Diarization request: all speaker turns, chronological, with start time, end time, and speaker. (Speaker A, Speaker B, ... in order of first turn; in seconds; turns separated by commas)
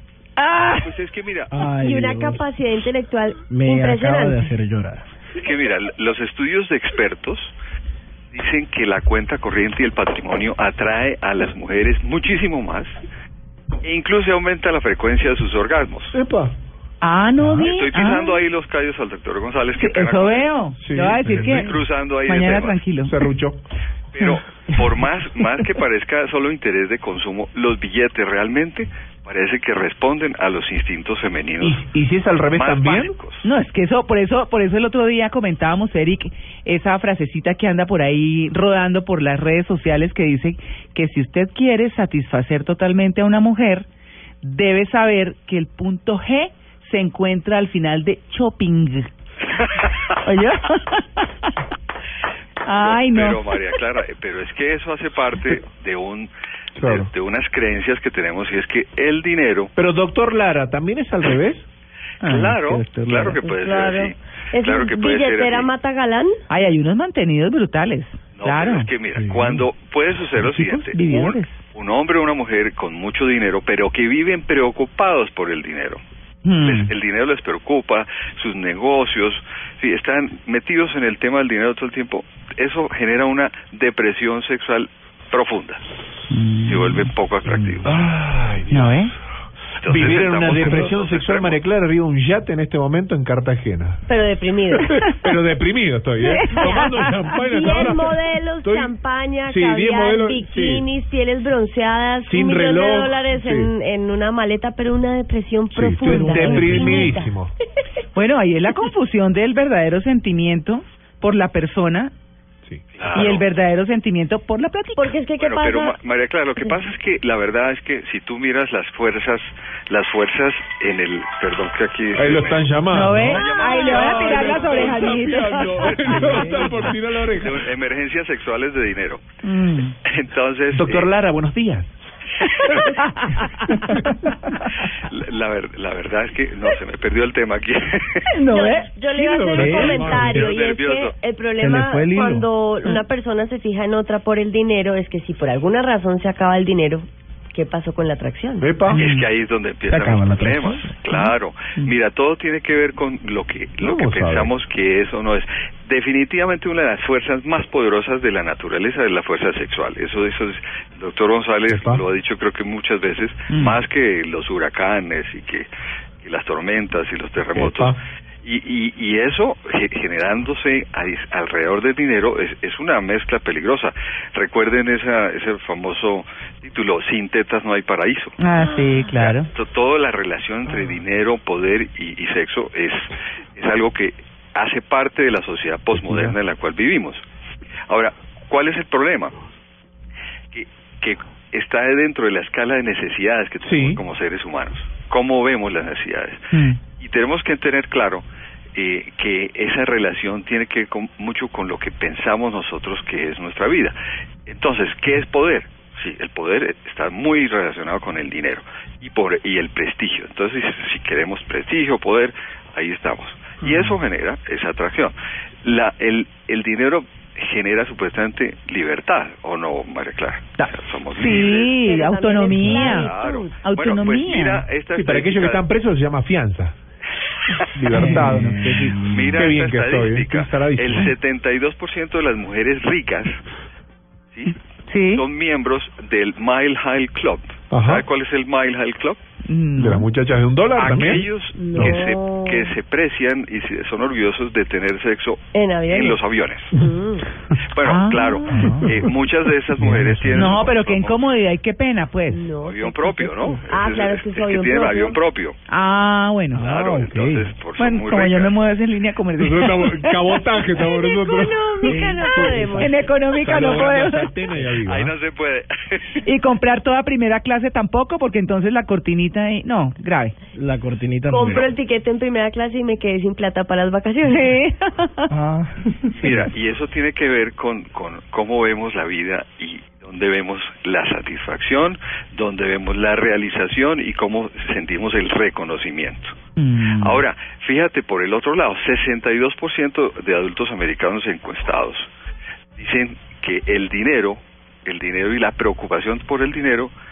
Speaker A: 0.4-0.9, Speaker B: 0.8-1.6, Speaker C: 1.5-2.5, Speaker D: 1.8-4.5, Speaker C: 3.5-5.1, Speaker B: 5.3-7.5, Speaker B: 8.3-13.0, Speaker B: 13.8-16.2, Speaker E: 16.1-16.6, Speaker A: 17.0-18.4, Speaker B: 17.6-20.6, Speaker A: 19.7-23.1, Speaker E: 20.8-21.8, Speaker B: 21.2-22.8, Speaker E: 23.1-23.6, Speaker B: 24.1-31.8, Speaker E: 31.6-33.1, Speaker B: 32.5-33.5, Speaker A: 33.4-43.9, Speaker A: 44.4-49.1, Speaker A: 50.2-51.3, Speaker A: 52.6-53.6, Speaker B: 52.7-59.7, Speaker E: 56.8-57.1, Speaker E: 59.8-61.7, Speaker A: 62.2-63.4, Speaker B: 62.2-65.7, Speaker D: 63.4-66.4, Speaker A: 66.5-68.9, Speaker B: 68.4-76.0, Speaker E: 69.2-69.6, Speaker A: 70.5-71.6, Speaker A: 76.4-76.9, Speaker B: 76.6-85.8, Speaker A: 86.3-87.7, Speaker B: 86.7-88.1, Speaker E: 87.8-89.1, Speaker A: 88.7-89.2, Speaker B: 89.8-91.6, Speaker E: 89.8-94.1, Speaker D: 94.1-95.0, Speaker E: 94.8-98.9, Speaker A: 96.2-97.1, Speaker D: 97.5-107.3, Speaker E: 99.5-100.9, Speaker E: 102.3-103.7, Speaker E: 105.7-107.5, Speaker A: 106.1-107.1, Speaker C: 106.2-107.0, Speaker A: 108.1-112.1, Speaker B: 113.0-113.5, Speaker A: 113.1-115.2, Speaker D: 115.0-116.0, Speaker B: 115.4-129.2, Speaker E: 122.2-127.6, Speaker A: 122.9-126.5, Speaker A: 129.4-130.0, Speaker B: 130.0-131.1, Speaker E: 130.7-131.9, Speaker A: 132.7-134.3, Speaker B: 135.0-138.3, Speaker A: 138.3-138.9, Speaker D: 138.5-148.7, Speaker E: 139.1-140.5, Speaker C: 139.5-140.3, Speaker B: 140.2-141.1, Speaker C: 141.6-142.5, Speaker E: 148.6-149.0, Speaker A: 148.9-149.3, Speaker B: 148.9-165.7, Speaker C: 149.9-151.0, Speaker A: 151.1-151.9, Speaker E: 153.8-154.5, Speaker E: 161.7-162.0, Speaker A: 163.5-163.8, Speaker B: 166.2-178.4, Speaker E: 167.5-168.0, Speaker A: 178.4-179.5, Speaker B: 179.1-187.2, Speaker E: 185.9-186.4, Speaker B: 187.9-189.3, Speaker B: 190.5-221.7, Speaker E: 193.6-194.0, Speaker A: 196.5-196.8, Speaker A: 220.6-223.1, Speaker D: 221.3-223.6, Speaker B: 222.4-225.7, Speaker A: 223.6-224.6, Speaker E: 224.9-226.8, Speaker E: 227.7-231.1, Speaker A: 227.9-228.9, Speaker C: 228.0-229.0, Speaker B: 229.1-233.4, Speaker A: 234.9-235.2, Speaker B: 235.1-239.2, Speaker E: 237.7-238.0, Speaker A: 239.4-240.1, Speaker E: 239.8-242.0, Speaker B: 240.8-246.8, Speaker D: 241.5-242.8, Speaker D: 245.5-246.2, Speaker D: 246.7-247.3, Speaker B: 247.7-251.2, Speaker A: 247.8-248.9, Speaker C: 248.5-249.1, Speaker C: 249.8-250.7, Speaker A: 250.3-252.5, Speaker D: 252.3-255.2, Speaker B: 252.6-255.6, Speaker A: 255.7-256.7, Speaker B: 256.5-258.5, Speaker C: 256.6-257.5, Speaker A: 257.8-260.4, Speaker E: 259.4-265.1, Speaker D: 260.9-263.6, Speaker C: 261.9-262.9, Speaker A: 262.8-264.3, Speaker B: 263.6-263.9, Speaker B: 264.6-266.2, Speaker A: 266.2-270.4, Speaker C: 270.5-271.7, Speaker D: 271.3-274.6, Speaker A: 274.2-275.2, Speaker C: 275.3-276.4, Speaker B: 276.1-292.1, Speaker A: 286.6-287.2, Speaker B: 292.8-296.9